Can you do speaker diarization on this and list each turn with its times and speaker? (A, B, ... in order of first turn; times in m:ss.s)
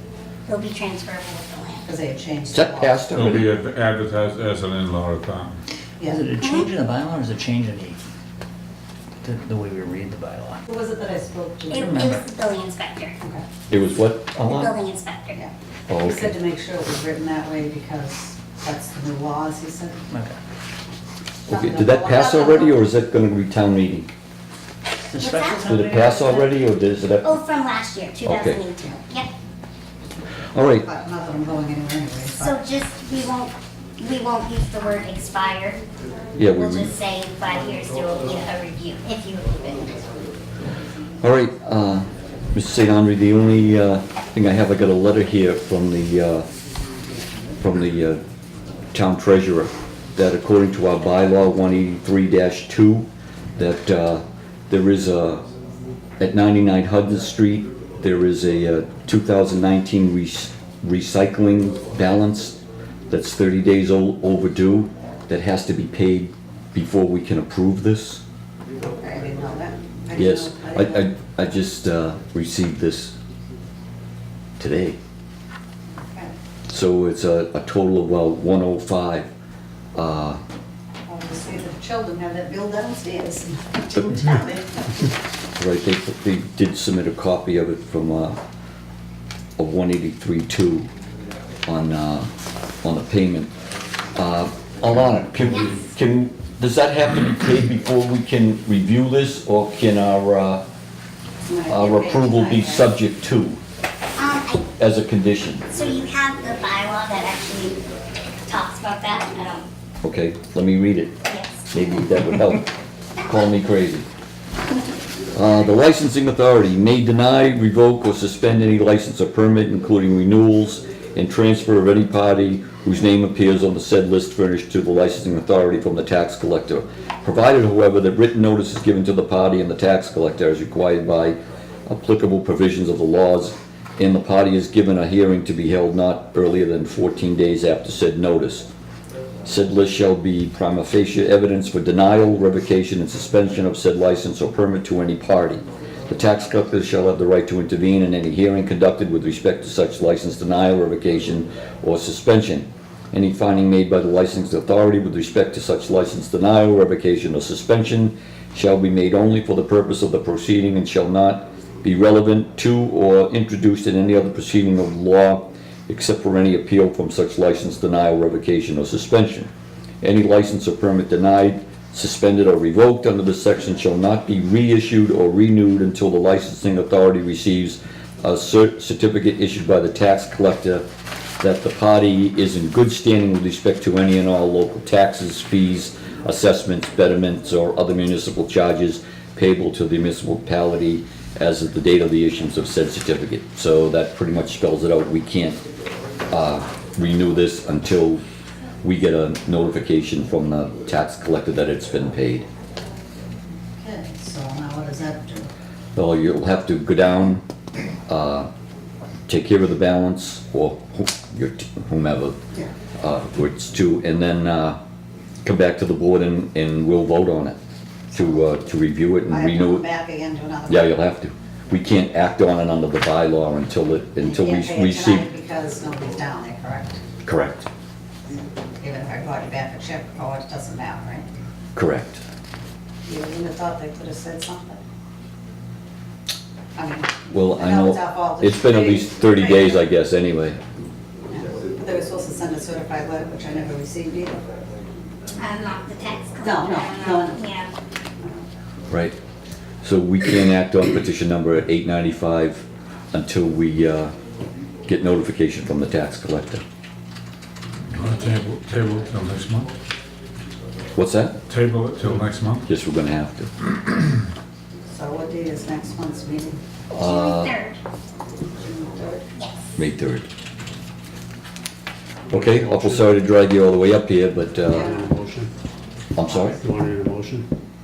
0:00.4-0:01.9 A
0:01.8-0:03.0 B
0:02.5-0:03.5 C
0:03.1-0:05.6 D
0:06.0-0:06.2 B
0:06.1-0:08.0 E
0:06.4-0:06.7 A
0:09.2-0:10.6 E
0:10.7-0:12.0 B
0:11.7-0:13.2 A
0:11.8-0:12.2 E
0:13.7-0:14.7 C
0:14.4-0:15.4 A
0:15.3-0:20.0 B
0:15.9-0:16.4 C
0:20.1-0:20.4 E
0:21.5-0:22.8 B
0:21.5-0:24.1 C
0:25.1-0:26.2 E
0:25.2-0:26.5 A
0:25.6-0:27.4 C
0:27.2-0:29.3 A
0:28.2-0:28.6 C
0:30.5-0:30.8 C
0:30.8-0:32.6 B
0:32.3-0:35.8 A
0:36.4-0:36.9 C
0:36.4-0:40.0 A
0:41.2-0:46.4 C
0:47.6-0:48.2 C
0:48.9-0:55.4 C
0:56.2-1:02.6 C
1:03.1-1:08.2 C
1:09.0-1:11.1 B
1:10.1-1:13.1 C
1:14.6-1:15.0 C
1:15.9-1:16.3 B
1:16.7-1:19.3 C
1:19.9-1:20.4 C
1:21.0-1:24.9 B
1:25.6-1:28.4 C
1:29.6-1:30.9 C
1:31.6-1:32.3 C
1:32.8-1:33.5 C
1:34.2-1:40.6 C
1:35.4-1:35.8 A
1:41.5-1:42.9 B
1:41.7-1:43.6 C
1:44.2-1:44.6 A
1:44.8-1:45.7 C
1:45.7-1:47.8 A
1:48.4-1:49.7 A
1:50.0-1:51.1 C
1:51.2-1:51.7 A
1:51.7-1:52.7 C
1:53.2-1:54.0 C
1:55.3-2:11.4 C
2:11.9-2:18.7 C
2:19.4-2:49.5 C
2:50.0-3:00.8 C
3:01.4-3:15.6 C
3:16.3-3:18.2 C
3:18.8-3:22.4 C
3:23.7-3:25.5 B
3:25.9-3:27.4 C
3:28.1-3:28.5 C
3:29.3-3:32.4 C
3:33.0-3:34.8 C
3:35.4-3:37.6 C
3:38.1-3:39.8 C
3:39.3-3:41.0 B
3:40.7-3:45.3 C
3:44.2-3:47.0 B
3:47.2-3:47.7 C
3:48.8-3:51.2 B
3:51.7-3:52.2 C
3:53.0-3:54.8 B
3:56.8-3:59.8 B
3:57.3-4:00.6 C
4:01.3-4:04.4 B
4:05.3-4:07.7 A
4:06.4-4:07.4 B
4:09.8-4:14.1 C
4:14.9-4:16.6 C
4:17.9-4:19.7 D
4:20.9-4:21.4 C
4:21.5-4:22.6 D
4:22.7-4:23.5 C
4:24.9-4:26.6 B
4:26.9-4:27.6 C
4:27.0-4:27.8 A
4:28.6-4:29.3 B
4:29.8-4:30.3 C
4:32.3-4:33.2 F
4:32.3-4:34.9 C
4:34.7-4:35.1 B
4:34.7-4:35.5 F
4:36.1-4:36.6 C
4:36.6-4:37.5 F